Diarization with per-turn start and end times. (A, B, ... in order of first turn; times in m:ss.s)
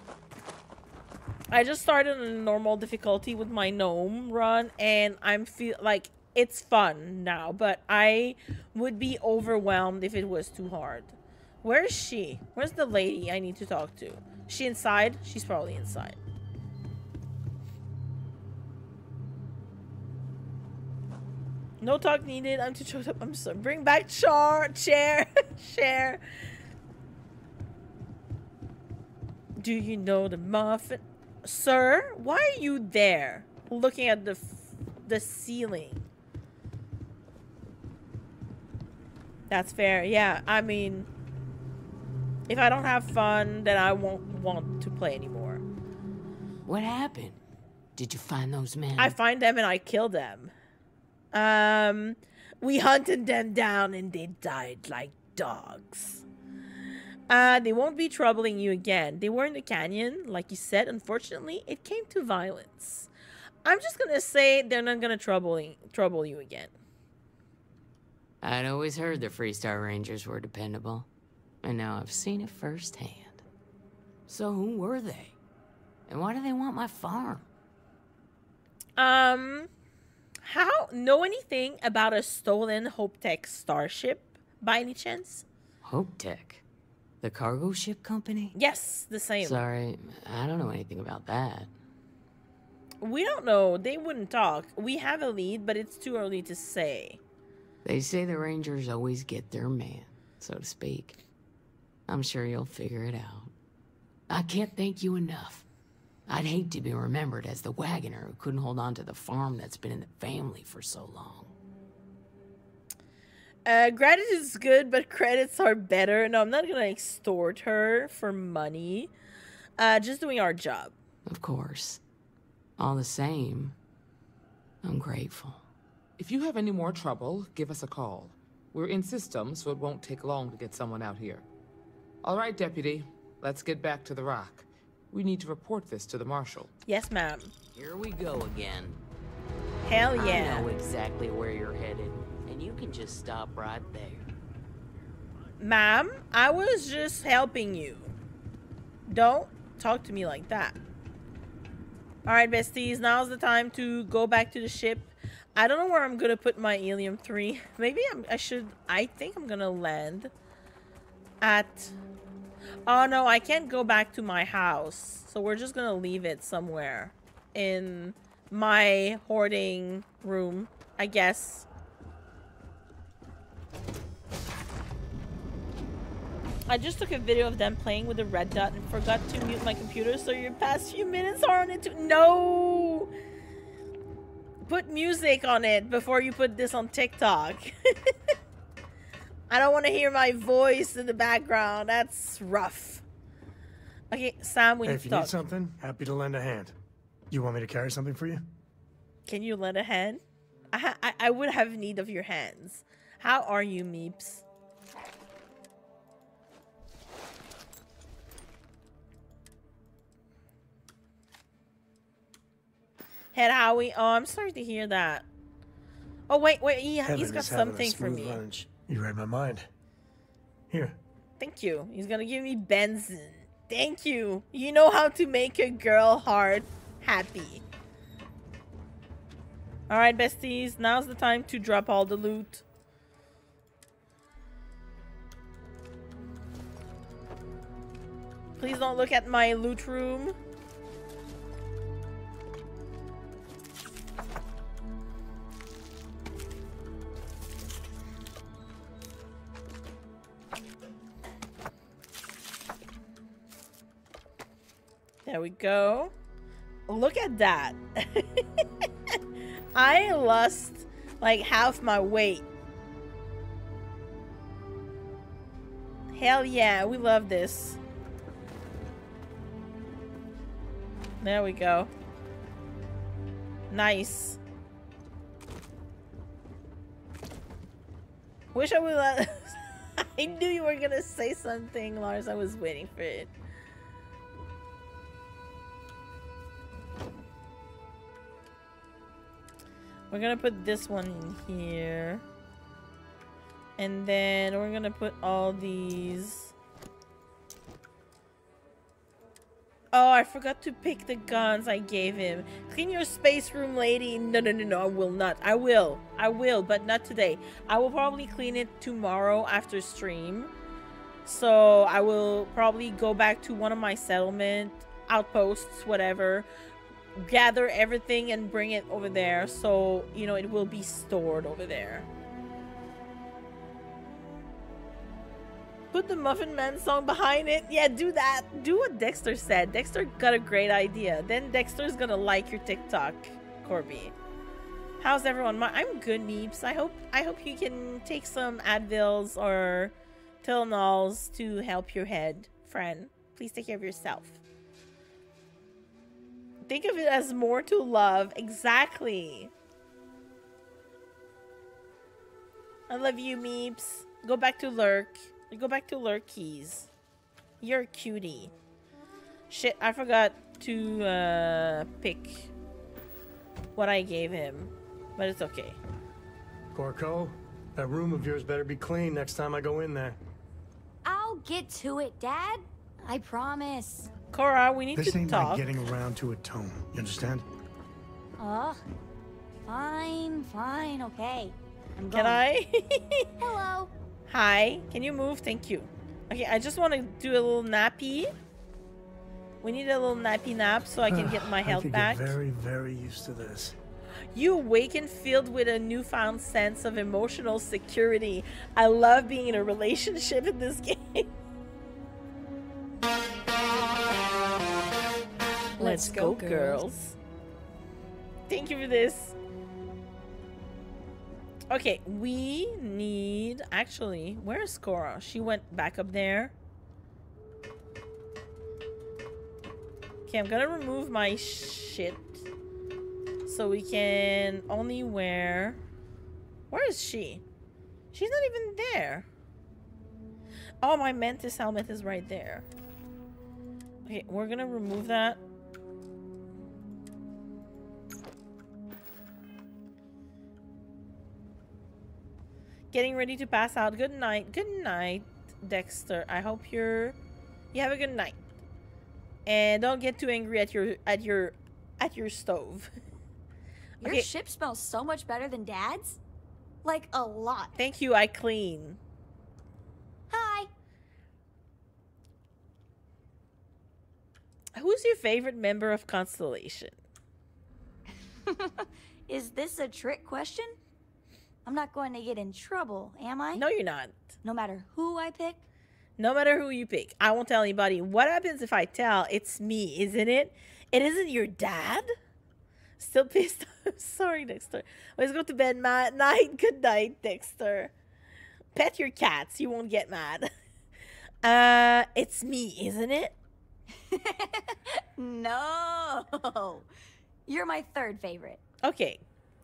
0:01.5-0:16.2 A
0:21.8-0:26.2 A
0:29.6-0:36.0 A
0:39.5-0:41.1 A
0:42.5-0:45.6 A
0:46.7-0:47.4 B
0:48.0-0:49.2 B
0:49.0-0:50.5 A
0:51.3-0:56.2 A
0:57.3-1:03.1 A
1:03.6-1:06.7 A
1:08.4-1:11.1 B
1:11.6-1:13.4 B
1:14.3-1:15.4 B
1:16.1-1:17.5 B
1:19.0-1:19.7 A
1:20.4-1:25.5 A
1:25.8-1:26.6 B
1:27.2-1:28.5 B
1:28.6-1:29.6 A
1:29.4-1:31.7 B
1:33.0-1:37.2 A
1:37.8-1:41.2 B
1:42.1-1:43.5 B
1:44.3-1:45.6 B
1:46.3-1:51.5 B
1:53.7-1:59.1 A
1:59.8-2:00.9 A
2:01.3-2:02.0 B
2:02.8-2:03.8 B
2:04.8-2:05.6 B
2:06.2-2:11.5 C
2:12.2-2:16.7 C
2:16.9-2:17.5 A
2:17.8-2:19.0 B
2:19.9-2:20.7 A
2:20.1-2:24.3 B
2:25.6-2:28.1 A
2:29.1-2:30.8 A
2:32.3-2:40.3 A
2:41.4-2:41.9 A
2:42.9-2:51.7 A
2:56.7-3:03.1 A
3:04.7-3:08.1 A
3:09.5-3:13.0 A
3:14.1-3:15.4 A
3:14.8-3:16.8 D
3:17.3-3:18.4 D
3:19.3-3:20.2 A
3:20.7-3:24.4 A
3:33.3-3:35.3 A
3:36.3-3:38.4 A
3:37.1-3:39.7 D
3:40.7-3:41.0 D
3:41.4-3:47.6 A
3:49.9-3:52.6 A
3:58.6-4:00.4 A
4:15.3-4:16.1 A
4:16.9-4:18.6 A
4:19.8-4:22.4 A
4:26.1-4:27.8 A
4:31.2-4:31.9 A
4:33.7-4:34.4 A
4:38.5-4:43.3 A
4:50.1-4:52.2 A
4:53.8-4:56.5 A
4:59.9-5:10.5 A
5:11.2-5:16.5 A
5:17.2-5:22.1 A
5:25.9-5:34.1 A
5:35.0-5:44.4 A
5:46.7-5:49.5 A
5:52.9-5:56.9 A
5:57.6-5:58.5 A
5:59.5-6:02.5 A
6:03.8-6:05.8 A
6:06.7-6:10.2 D
6:11.0-6:14.1 E
6:14.3-6:15.7 A
6:15.0-6:17.5 D
6:18.4-6:18.8 E
6:19.7-6:22.4 E
6:22.1-6:23.3 A
6:23.4-6:23.9 E
6:24.3-6:28.3 A
6:29.6-6:32.4 A
6:31.1-6:33.8 D
6:34.3-6:41.3 A
6:45.8-6:47.2 A
6:45.8-6:46.8 E
6:48.5-6:49.4 A
6:51.7-6:56.5 A
7:00.3-7:02.4 A
7:03.5-7:05.8 A
7:06.7-7:07.4 A
7:08.1-7:09.3 A
7:10.8-7:12.7 A
7:14.1-7:15.4 A
7:22.9-7:27.2 A
7:27.7-7:28.4 A
7:29.5-7:32.9 A
7:34.0-7:36.2 E
7:34.0-7:34.3 A
7:36.8-7:37.7 E
7:37.8-7:39.0 A
7:40.3-7:40.7 E
7:44.8-7:47.0 A
7:48.5-7:50.8 E
7:51.6-7:53.6 E
7:53.6-7:54.1 A
7:54.4-7:55.6 E
7:56.2-8:02.1 A
8:03.0-8:07.9 A
8:08.8-8:10.5 A
8:11.4-8:13.4 A
8:14.1-8:16.9 E
8:17.5-8:18.6 E
8:18.8-8:19.2 A